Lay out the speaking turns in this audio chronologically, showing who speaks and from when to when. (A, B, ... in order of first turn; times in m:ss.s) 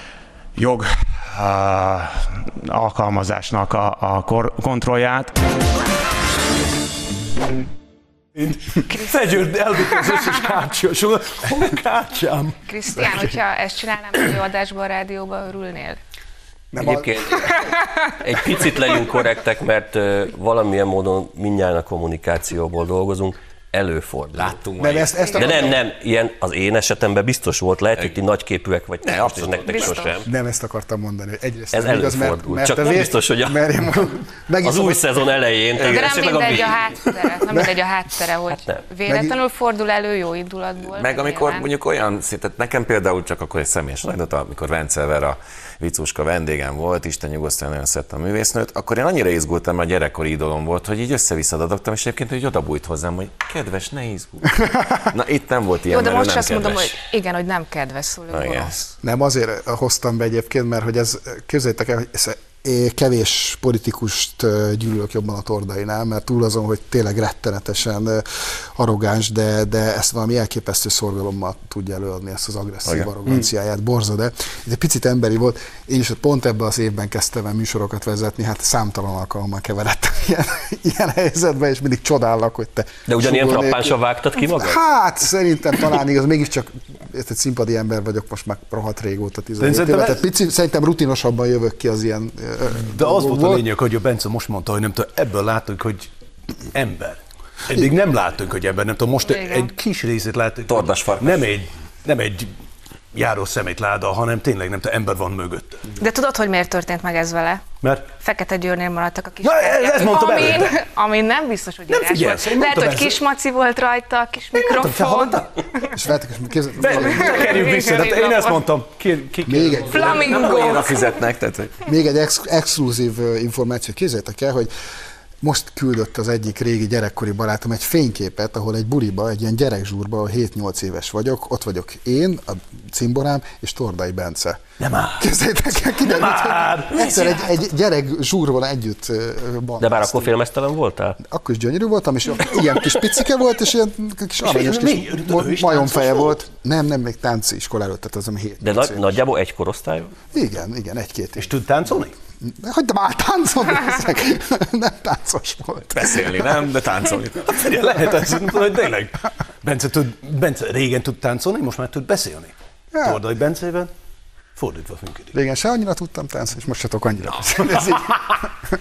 0:00.6-0:05.3 A
0:08.4-0:12.6 B
0:08.9-0:10.1 C
0:12.7-0:16.0 C
0:13.0-0:13.3 D
0:16.7-0:17.5 D
0:16.8-0:17.6 E
0:18.2-0:24.6 E
0:24.3-0:25.4 F
0:24.8-0:25.8 D
0:25.4-0:30.3 E
0:29.0-0:30.1 F
0:29.6-0:30.2 C
0:30.2-0:35.2 D
0:31.7-0:33.6 E
0:34.6-0:36.7 E
0:35.9-0:41.6 C
0:39.1-0:39.4 D
0:40.8-0:56.9 F
0:55.9-0:58.9 C
0:58.3-0:58.7 F
0:59.0-1:33.6 D
1:23.1-1:24.8 E
1:29.6-1:30.2 B
1:32.8-1:36.1 B
1:36.7-1:42.5 B
1:39.2-1:39.7 C
1:40.7-1:41.5 F
1:43.1-1:45.9 B
1:46.0-1:55.9 C
1:47.8-1:48.1 B
1:49.4-1:50.8 B
1:51.9-1:53.2 B
1:54.5-1:55.6 B
1:55.9-1:57.6 D
1:56.8-2:00.7 B
1:56.9-1:58.7 C
1:59.4-2:00.3 D
1:59.9-2:01.2 C
2:00.3-2:01.8 F
2:01.8-2:04.7 D
2:05.4-2:20.4 D
2:14.8-2:15.3 B
2:16.0-2:17.6 B
2:19.8-2:21.2 E
2:21.2-2:29.1 D
2:24.4-2:26.4 B
2:28.6-2:30.1 E
2:30.3-2:31.5 D
2:31.4-2:32.1 B
2:32.4-2:36.5 D
2:35.9-2:37.6 F
2:37.4-2:43.9 B
2:42.9-2:43.2 D
2:44.6-2:45.3 B
2:45.3-2:48.4 D